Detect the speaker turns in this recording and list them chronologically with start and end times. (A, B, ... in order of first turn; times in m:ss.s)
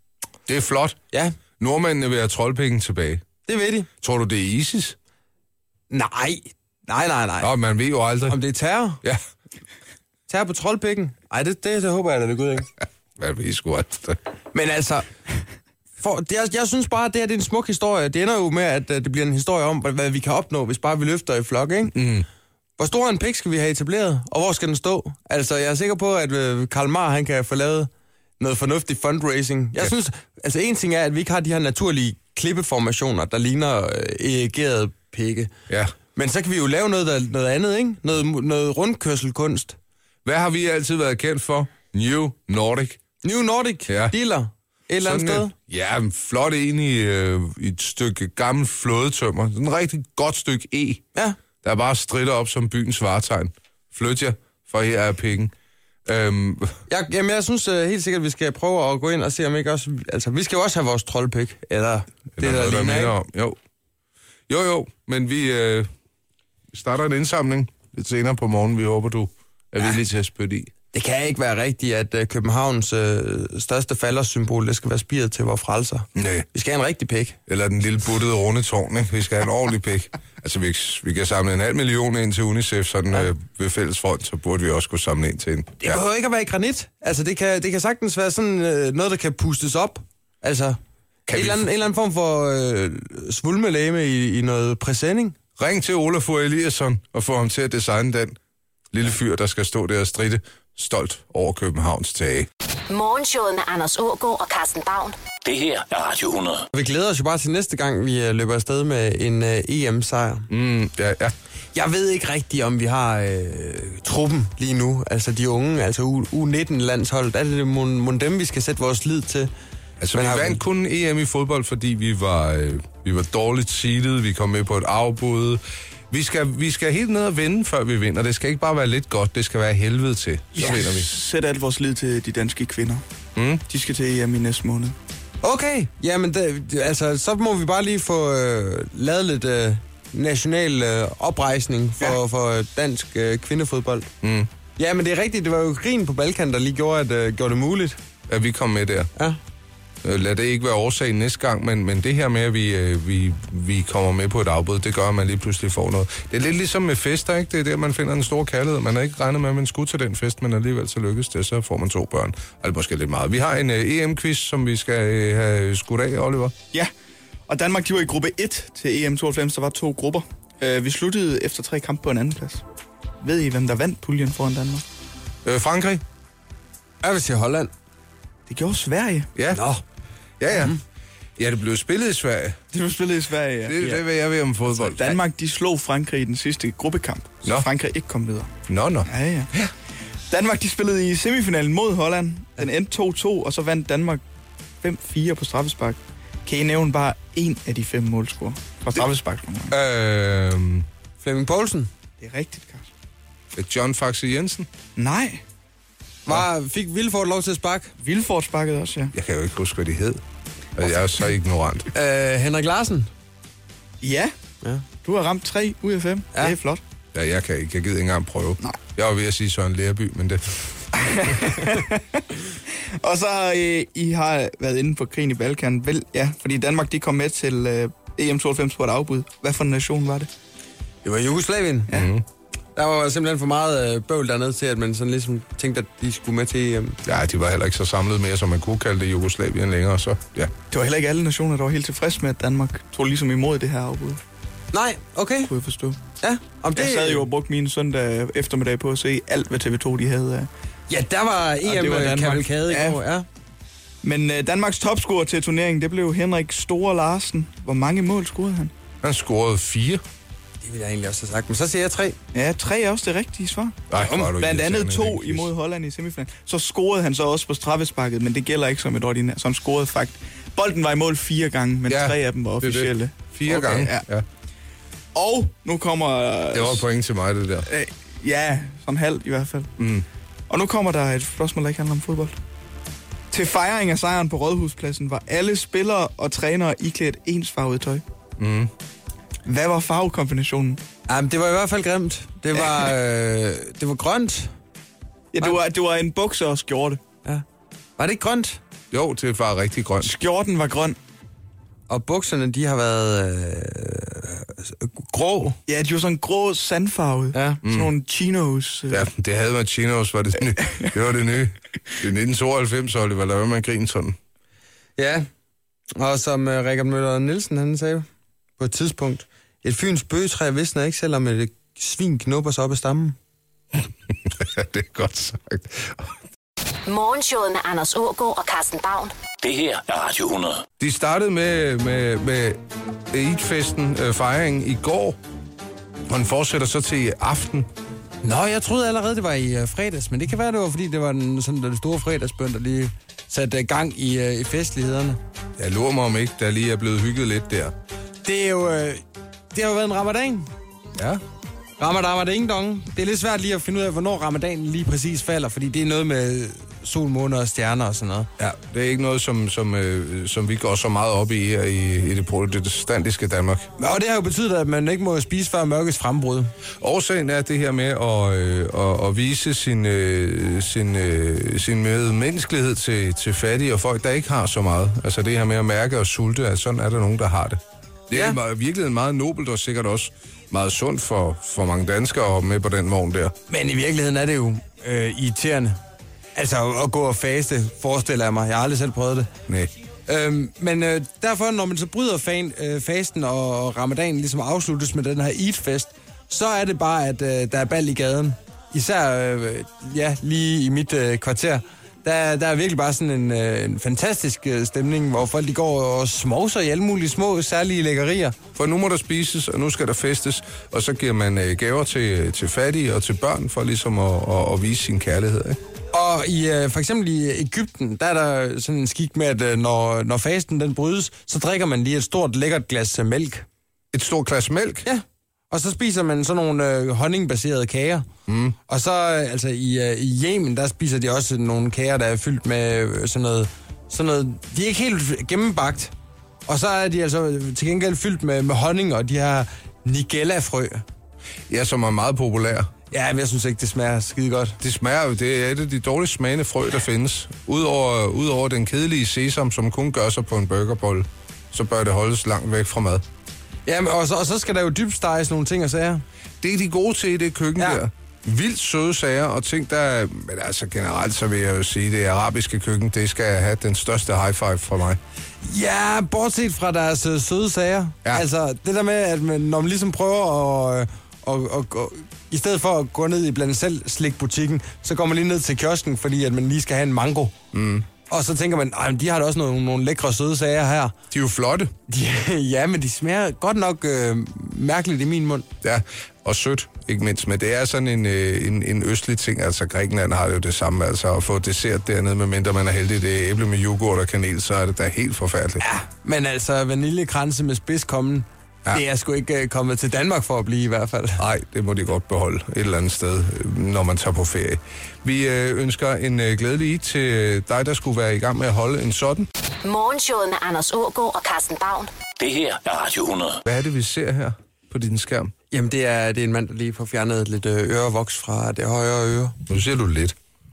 0:00.5-0:01.0 A
0:01.1-0:01.4 B
0:01.6-0:03.3 A
0:03.4-0:03.9 B
0:04.0-0:05.0 A
0:05.9-0:07.5 B
0:07.4-0:08.4 A
0:08.3-0:09.0 B
0:10.3-0:12.7 B
0:13.2-0:14.2 A
0:14.5-0:15.1 B
0:16.0-0:22.0 B
0:21.9-0:22.2 A
0:22.8-0:35.5 B
0:35.7-0:35.9 A
0:36.1-0:39.8 B
0:40.2-0:43.0 A
0:43.2-0:45.5 B
0:43.9-0:44.1 A
0:45.0-0:51.0 A
0:51.6-0:55.5 A
0:56.0-0:56.8 A
0:56.9-1:03.2 B
1:02.4-1:03.6 A
1:04.5-1:05.9 A
1:06.7-1:10.7 A
1:10.9-1:17.4 B
1:16.1-1:16.4 A
1:17.5-1:26.0 A
1:25.8-1:35.4 B
1:31.3-1:31.7 A
1:35.6-1:38.4 A
1:38.9-1:42.5 A
1:42.9-1:45.2 C
1:45.4-1:46.7 D
1:46.7-1:50.5 B
1:50.5-1:51.3 A
1:51.7-1:59.5 B
2:00.0-2:11.1 A
2:00.1-2:00.6 B
2:10.6-2:13.0 E
2:13.4-2:13.6 A
2:13.7-2:14.9 E
2:15.4-2:24.1 B
2:24.2-2:24.5 A
2:24.8-2:28.0 B
2:28.3-2:29.1 A
2:30.0-2:46.5 A
2:47.5-2:52.6 E
2:53.2-2:54.8 E
2:55.4-2:56.0 A
2:57.0-2:57.7 B
2:58.5-2:59.3 E
2:59.4-2:59.6 A
2:59.5-2:59.8 B
3:00.4-3:00.8 A
3:01.4-3:02.6 A
3:02.7-3:03.9 E
3:03.6-3:05.2 A
3:04.8-3:08.5 E
3:08.7-3:09.7 A
3:09.1-3:09.5 E
3:10.3-3:14.2 E
3:14.8-3:19.8 E
3:19.7-3:20.9 A
3:21.2-3:21.9 B
3:22.2-3:22.9 E
3:23.5-3:24.7 A
3:25.0-3:25.4 E
3:26.2-3:27.9 B
3:28.0-3:29.1 E
3:29.1-3:30.2 A
3:30.8-3:31.9 A
3:31.9-3:33.1 B
3:34.0-3:34.3 E
3:34.6-3:34.9 B
3:34.9-3:36.8 E
3:37.1-3:40.7 A
3:41.0-3:50.3 E
3:51.0-3:51.9 B
3:51.9-3:52.2 A
3:52.7-3:57.0 B
3:57.0-4:00.5 A
4:00.7-4:04.2 E
4:04.7-4:05.5 B
4:05.5-4:06.1 E
4:06.2-4:07.2 B
4:06.7-4:10.5 E
4:10.9-4:13.2 B
4:11.6-4:13.0 E
4:14.0-4:18.7 E
4:19.0-4:20.0 A
4:20.6-4:22.2 B
4:22.3-4:34.0 E
4:23.9-4:25.5 A
4:31.9-4:34.2 A
4:35.1-4:36.8 E
4:36.5-4:37.7 A
4:37.6-4:39.7 E
4:39.8-4:40.0 A
4:40.5-4:42.3 E
4:43.3-4:48.0 E
4:48.4-4:48.7 A
4:49.4-4:50.8 E
4:51.1-4:54.5 B
4:52.5-4:52.8 E
4:55.3-4:57.0 E
4:58.0-4:58.6 B
4:58.9-5:00.1 A
5:00.0-5:01.0 E
5:01.9-5:05.6 B
5:05.6-5:09.0 E
5:07.3-5:07.6 B
5:07.6-5:07.9 A
5:08.9-5:14.2 A
5:15.0-5:15.3 B
5:16.0-5:18.0 B
5:18.6-5:23.2 B
5:24.2-5:26.1 A
5:26.8-5:29.1 C
5:29.4-5:30.6 D
5:30.8-5:35.2 A
5:36.1-5:37.7 A
5:38.2-5:45.2 B
5:45.6-5:47.7 A
5:48.2-5:50.5 B
5:51.0-5:51.2 A
5:51.8-5:58.3 B
5:58.4-6:03.7 A
6:03.8-6:06.5 B
6:06.8-6:23.4 A
6:18.1-6:18.4 B
6:23.5-6:25.8 B
6:26.3-6:29.3 B
6:30.1-6:48.4 B
6:48.5-6:55.6 A
6:55.9-7:03.4 B
7:03.9-7:04.9 A
7:04.8-7:08.1 B
7:08.3-7:08.6 A
7:08.7-7:15.9 B
7:16.4-7:20.8 B
7:21.5-7:22.7 A
7:22.9-7:24.6 B
7:24.6-7:33.0 A
7:33.6-7:36.0 B
7:36.4-7:45.0 A
7:45.4-7:57.4 B
7:57.5-7:57.9 A
7:58.1-8:01.0 B
8:01.1-8:01.8 A
8:01.9-8:05.5 B
8:05.6-8:15.6 A
8:15.6-8:21.2 B
8:21.2-8:29.3 A
8:29.6-8:31.9 C
8:32.2-8:33.4 D
8:33.5-8:35.3 A
8:35.5-8:39.4 B
8:39.5-8:40.2 A